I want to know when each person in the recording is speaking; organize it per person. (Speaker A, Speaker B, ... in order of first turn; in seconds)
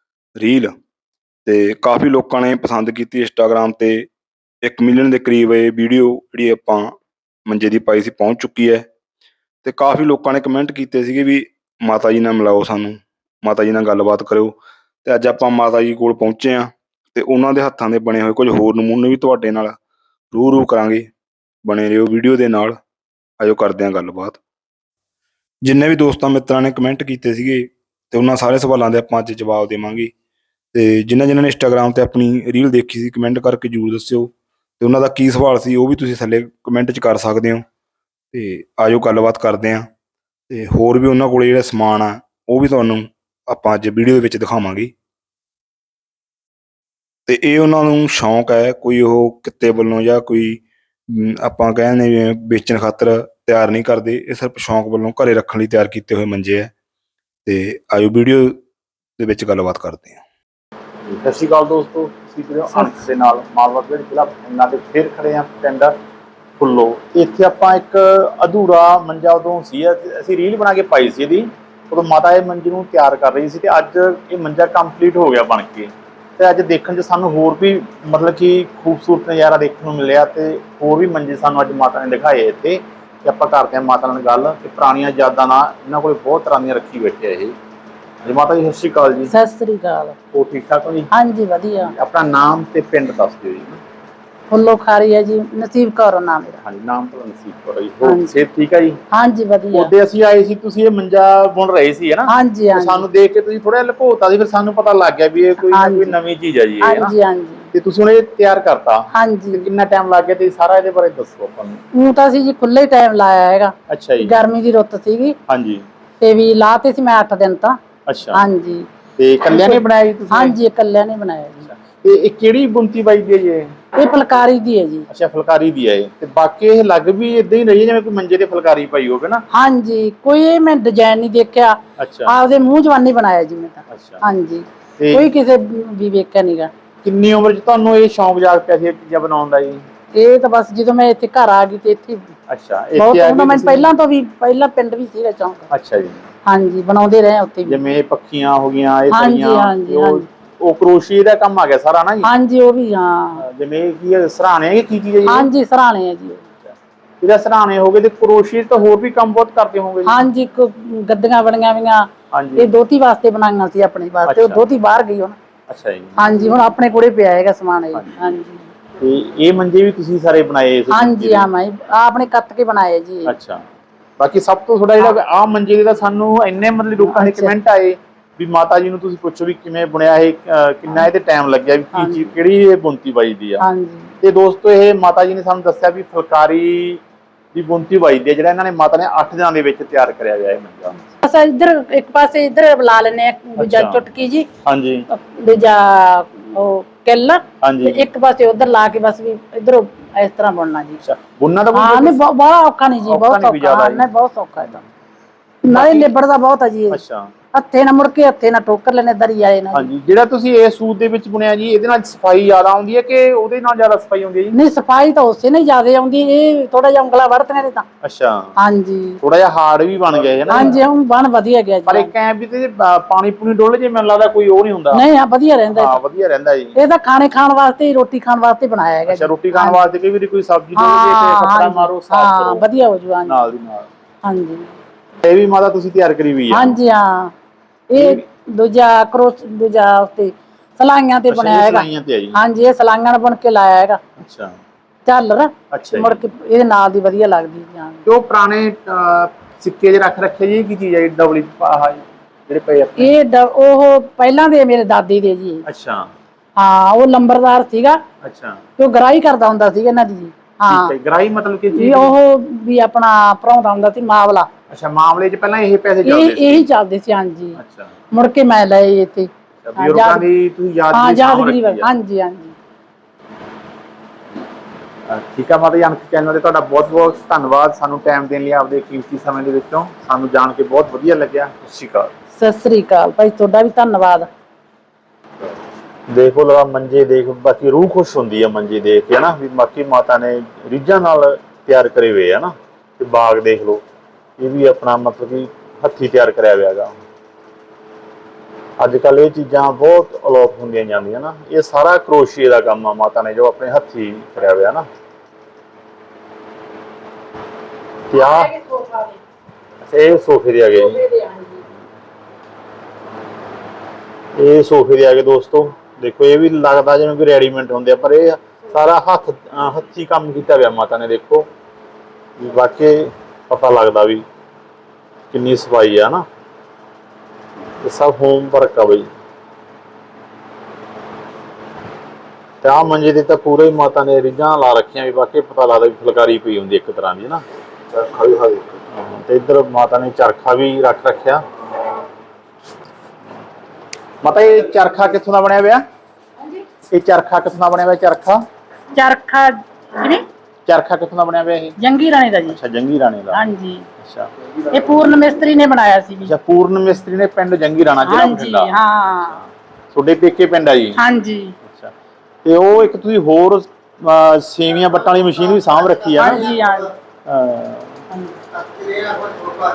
Speaker A: 0.4-0.7, 1.4-4.1, 4.6-6.9, 7.5-8.9, 9.6-19.7, 20.3-21.1, 21.6-22.8, 23.4-24.4, 25.6-30.1, 30.7-37.6, 38.3-39.9, 40.5-44.9, 47.3-50.6, 51.1-56.7, 57.5-58.5, 59.2-60.2
Speaker B: 61.1-65.9, 66.6-87.5, 88.2-89.3, 90.3-91.1, 91.9-93.8, 96.6-99.0, 99.7-107.1, 107.7-111.8, 113.9-114.3, 115.5-115.8, 118.1-118.4, 119.2-120.6, 121.6-123.7, 125.1-129.4, 132.0-132.3, 133.9-134.2, 135.0-135.3, 137.0-139.8, 142.5-143.9, 145.7-146.3, 147.7-152.3, 153.4-155.5, 157.2-160.2, 162.3-162.7, 164.2-164.6, 165.7-166.6, 169.0-171.5, 173.2-173.6, 174.2-183.7, 184.2-187.0, 187.5-191.0, 193.6-194.0, 194.6-195.1, 197.6-198.1, 201.0-202.2, 203.1-204.0, 205.7-206.1, 206.9-207.3, 209.7-214.6, 218.0-218.5, 219.2-220.8, 221.9-225.0, 225.7-226.8, 229.1-232.6, 233.2-233.9, 235.2-236.8, 237.9-238.2, 241.3-242.4, 244.2-244.6, 245.7-246.2, 248.0-253.1, 255.6-256.1, 258.2-258.6, 260.7-262.2, 264.7-266.7, 267.6-267.9, 269.6-271.9, 275.1-282.1, 286.1-293.8, 294.4-297.0, 298.8-304.8, 308.1-308.5, 309.8-311.0, 314.3-321.4, 322.4-324.2, 325.3-326.2, 327.8-329.1, 332.6-337.4, 337.9-341.4, 344.2-345.8, 346.9-348.4, 350.6-351.8, 352.5-353.4, 354.0-354.3, 356.2-358.7, 359.9-361.0, 361.7-361.9, 362.4-366.5, 367.2-368.0
Speaker C: 89.3-90.2, 91.1-91.9, 94.5-96.6, 98.0-98.4, 99.1-99.9, 102.3-103.0, 105.6-106.2, 106.8-107.7, 109.1-109.7, 111.9-115.3, 116.2-117.8, 118.3-118.9, 119.5-121.7, 123.9-125.1, 129.5-136.7, 140.1-142.3, 142.9-145.7, 146.4-147.8, 149.1-150.2, 152.2-153.4, 155.3-156.4, 160.1-165.4, 166.2-168.7, 170.9-173.3, 177.0-177.5, 181.9-182.3, 183.6-184.1, 191.0-194.5, 195.1-201.0, 201.7-204.8, 205.6-207.0, 207.5-209.9, 214.5-217.8, 218.6-219.2, 220.5-222.1, 224.9-226.0, 226.7-229.8, 230.8-233.5, 234.2-234.7, 236.5-237.3, 237.9-244.0, 245.0-248.0, 253.0-255.6, 256.6-258.0, 258.8-260.9, 261.7-264.5, 266.0-267.6, 268.1-270.3, 270.9-272.5, 282.3-284.3, 308.1-309.2, 310.8-311.7, 348.9-350.2, 351.8-352.6, 353.3-353.9, 354.7-356.3, 358.0-359.4, 360.9-361.5, 366.2-366.9, 368.1-368.4